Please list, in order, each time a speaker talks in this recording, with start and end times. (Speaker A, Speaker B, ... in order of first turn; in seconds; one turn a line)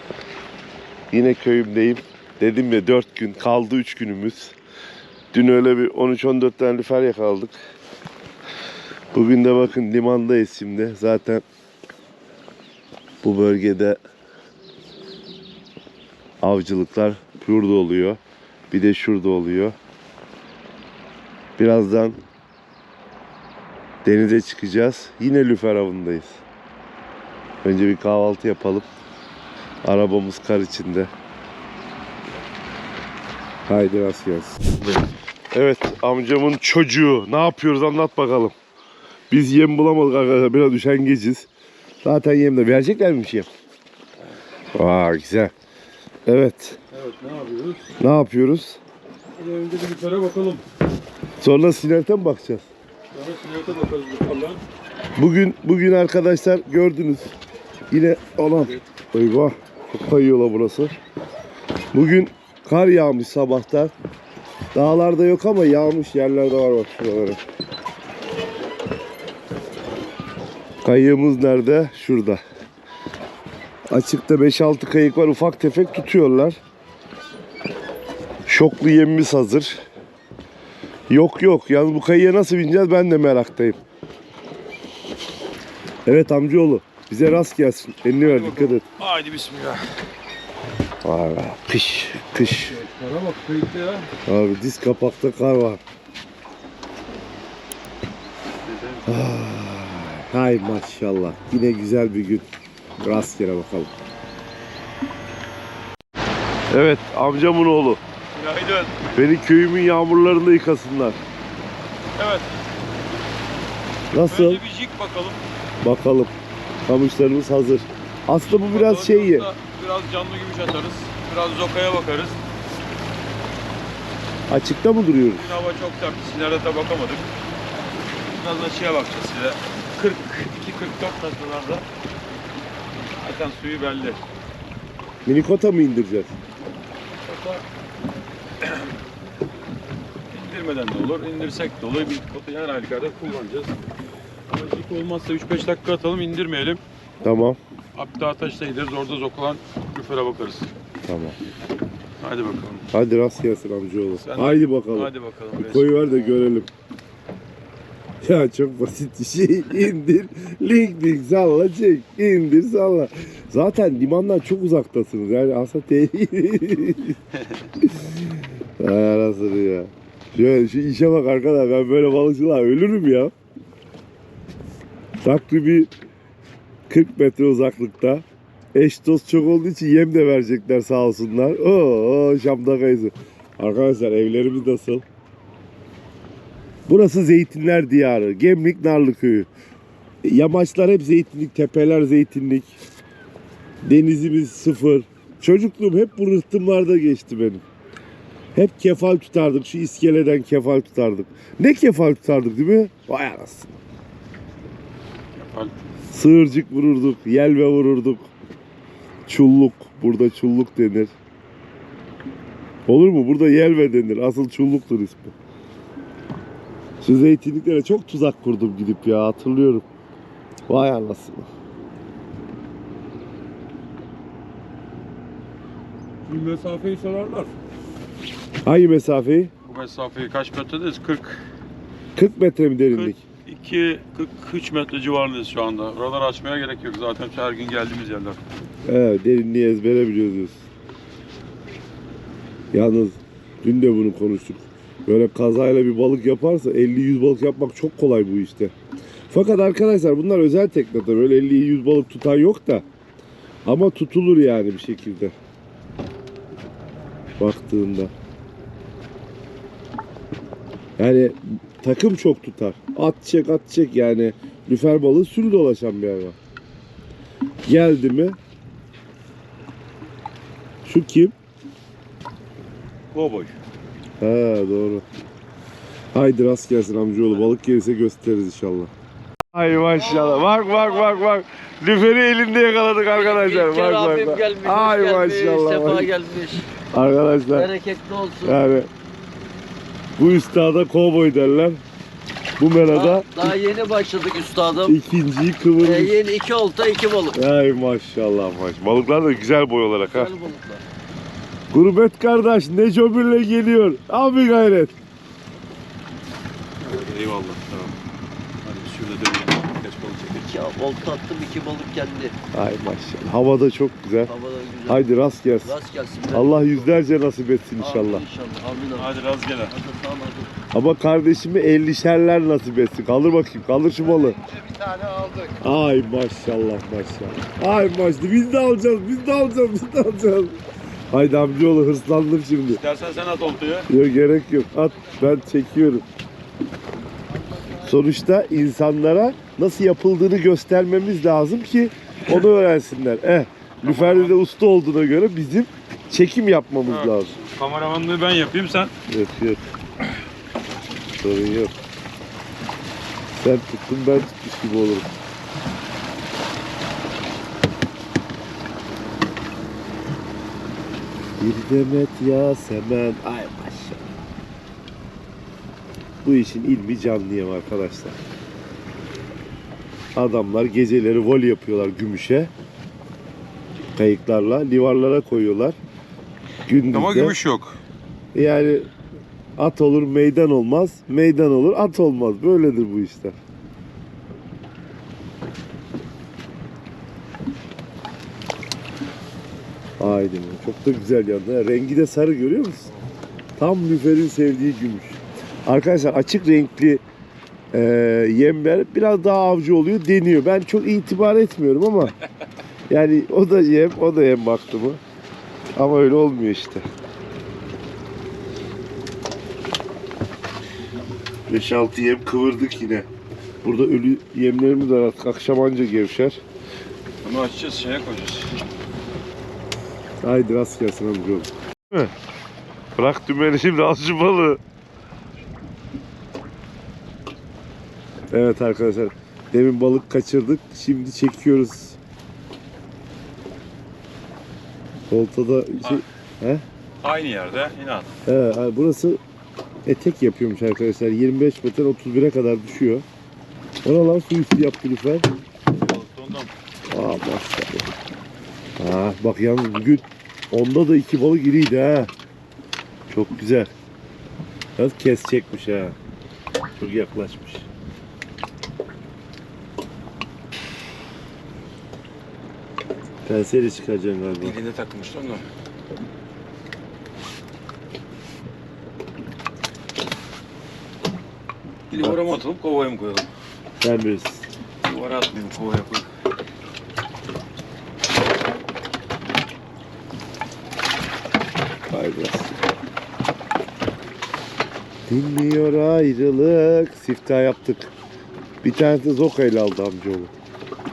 Speaker A: 1.1-4.5
Speaker A: 5.3-7.5
Speaker A: 9.1-11.4
Speaker A: 13.2-14.0
Speaker A: 16.4-18.2
Speaker A: 18.7-19.7
Speaker A: 21.6-22.2
Speaker A: 24.0-26.4
Speaker A: 27.6-28.9
Speaker A: 29.8-31.1
Speaker A: 33.6-34.6
Speaker A: 35.5-38.5
Speaker A: 39.3-41.5
Speaker A: 42.0-43.5
Speaker A: 44.7-45.5
Speaker A: 46.2-46.8
Speaker B: 46.9-47.8
Speaker A: 48.0-48.8
Speaker B: 49.4-50.6
Speaker A: 51.4-52.7
Speaker B: 53.1-54.6
Speaker A: 55.2-57.3
Speaker A: 57.9-60.9
Speaker A: 61.9-63.9
Speaker A: 64.7-67.4
Speaker A: 70.8-72.4
Speaker A: 73.9-76.6
Speaker A: 78.5-79.8
Speaker A: 81.1-83.8
Speaker A: 86.0-88.8
Speaker B: 88.2-89.9
Speaker A: 91.0-92.7
Speaker B: 92.4-94.1
Speaker A: 94.2-95.8
Speaker B: 98.6-99.1
Speaker A: 99.0-103.9
Speaker A: 106.7-108.0
Speaker B: 108.3-108.9
Speaker A: 109.1-111.2
Speaker B: 112.2-112.5
Speaker A: 114.1-114.6
Speaker B: 114.2-115.4
Speaker A: 115.8-116.3
Speaker A: 116.8-119.5
Speaker B: 118.4-122.4
Speaker A: 124.5-125.5
Speaker B: 125.3-127.3
Speaker B: 128.3-131.8
Speaker B: 133.2-134.2
Speaker A: 135.2-136.3
Speaker B: 137.2-137.6
Speaker B: 140.3-143.8
Speaker B: 144.5-146.8
Speaker A: 147.2-147.6
Speaker B: 147.9-150.7
Speaker A: 151.0-151.3
Speaker B: 152.2-152.8
Speaker A: 152.9-156.7
Speaker B: 154.2-156.4
Speaker A: 158.2-167.2
Speaker A: 167.8-173.3
Speaker A: 175.2-175.9
Speaker A: 176.9-185.0
Speaker A: 186.9-189.5
Speaker A: 190.2-192.8
Speaker A: 193.8-197.6
Speaker A: 198.5-203.7
Speaker B: 205.3-205.7
Speaker A: 206.1-208.3
Speaker A: 209.2-211.1
Speaker A: 212.9-215.3
Speaker A: 217.0-219.8
Speaker A: 220.7-221.5
Speaker B: 226.2-227.5
Speaker A: 228.6-229.5
Speaker B: 229.6-231.4
Speaker A: 232.1-233.2
Speaker B: 232.9-238.4
Speaker A: 238.8-240.6
Speaker A: 242.7-248.7
Speaker A: 249.3-252.8
Speaker A: 253.7-255.3
Speaker A: 257.4-258.1
Speaker A: 261.0-266.4
Speaker A: 267.6-268.4
Speaker A: 270.8-271.3
Speaker B: 273.1-273.5
Speaker A: 274.2-275.0
Speaker A: 276.1-278.9
Speaker A: 279.5-286.1
Speaker C: 279.9-281.2
Speaker C: 283.1-286.7
Speaker A: 286.9-287.7
Speaker C: 287.5-288.6
Speaker A: 288.4-288.9
Speaker A: 290.1-291.8
Speaker A: 292.6-293.5
Speaker C: 292.9-295.0
Speaker A: 294.8-296.2
Speaker C: 295.8-297.4
Speaker A: 297.3-300.3
Speaker C: 300.1-300.8
Speaker A: 301.7-305.0
Speaker B: 306.8-307.9
Speaker B: 308.6-310.4
Speaker C: 310.3-312.3
Speaker A: 312.5-314.3
Speaker C: 314.2-315.1
Speaker A: 314.9-315.7
Speaker C: 315.6-316.9
Speaker A: 316.3-318.2
Speaker C: 317.8-319.1
Speaker B: 318.9-319.7
Speaker C: 319.7-320.5
Speaker A: 320.7-324.4
Speaker C: 324.1-325.6
Speaker A: 325.6-330.6
Speaker A: 331.1-332.8
Speaker B: 332.7-333.9
Speaker A: 333.9-336.1
Speaker A: 337.8-347.4
Speaker B: 343.8-344.3
Speaker B: 346.9-348.9
Speaker A: 349.1-349.6
Speaker A: 351.2-351.8
Speaker A: 353.3-355.1
Speaker A: 361.4-364.1
Speaker A: 366.2-368.2
Speaker A: 370.1-372.5
Speaker A: 373.9-375.8
Speaker A: 376.6-377.3
Speaker B: 376.9-377.8
Speaker A: 378.3-378.9
Speaker A: 379.6-383.4
Speaker A: 390.0-392.9
Speaker A: 393.6-397.0
Speaker A: 397.7-402.1
Speaker A: 402.9-405.0
Speaker A: 405.8-406.8
Speaker A: 411.5-413.1
Speaker A: 413.6-416.4
Speaker B: 417.2-418.6
Speaker A: 420.2-422.1
Speaker A: 422.9-424.6
Speaker A: 428.3-432.0
Speaker A: 435.1-436.6
Speaker B: 437.0-438.1
Speaker A: 438.2-439.2
Speaker A: 439.8-443.0
Speaker A: 443.8-445.3
Speaker B: 445.8-446.5
Speaker A: 446.9-447.9
Speaker A: 448.8-452.1
Speaker A: 453.1-453.7
Speaker A: 454.8-455.9
Speaker A: 456.8-457.7
Speaker A: 463.2-464.5
Speaker B: 464.3-465.4
Speaker B: 471.9-473.3
Speaker A: 471.9-472.4
Speaker A: 473.8-474.4
Speaker B: 474.8-476.1
Speaker A: 481.9-482.6
Speaker A: 485.1-487.9
Speaker A: 488.6-490.3